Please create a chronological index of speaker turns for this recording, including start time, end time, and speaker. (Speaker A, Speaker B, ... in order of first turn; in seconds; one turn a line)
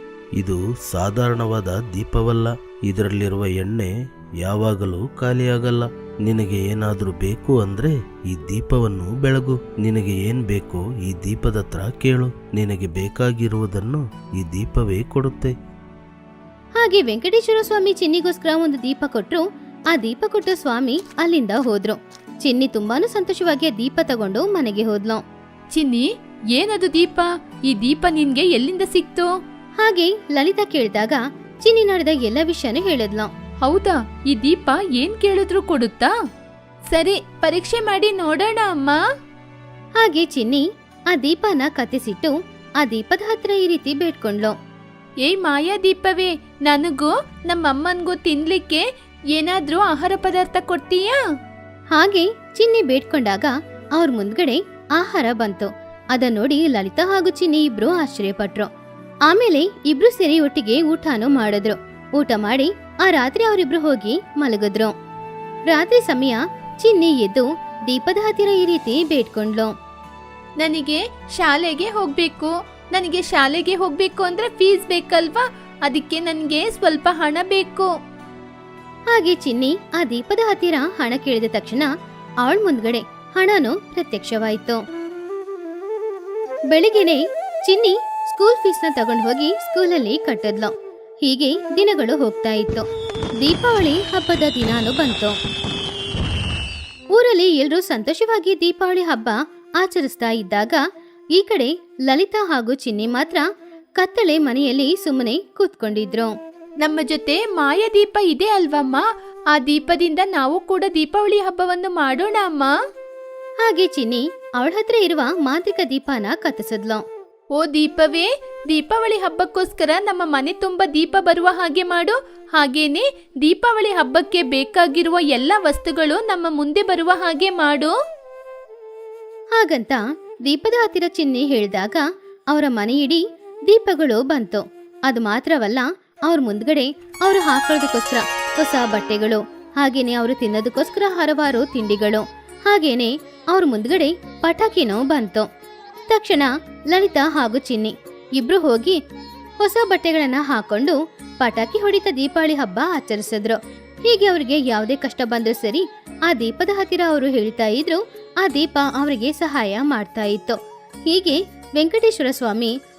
Speaker A: 0.4-3.9
Speaker A: 4.4-15.5
Speaker B: 16.8-25.2
Speaker C: 25.7-29.3
Speaker B: 29.8-33.3
Speaker C: 33.6-36.1
Speaker C: 36.9-39.0
Speaker B: 40.0-44.5
Speaker C: 45.2-51.2
Speaker B: 51.9-58.7
Speaker B: 59.3-64.9
Speaker B: 65.7-69.7
Speaker C: 70.6-77.9
Speaker B: 79.1-81.9
Speaker B: 82.4-84.8
Speaker B: 86.7-90.7
Speaker B: 91.2-92.9
Speaker B: 93.4-95.3
Speaker B: 97.2-100.8
Speaker B: 101.3-103.4
Speaker B: 104.0-106.3
Speaker C: 106.8-112.7
Speaker B: 113.6-117.0
Speaker C: 117.5-127.9
Speaker B: 129.6-145.5
Speaker B: 146.1-149.0
Speaker B: 149.6-160.6
Speaker B: 161.1-162.7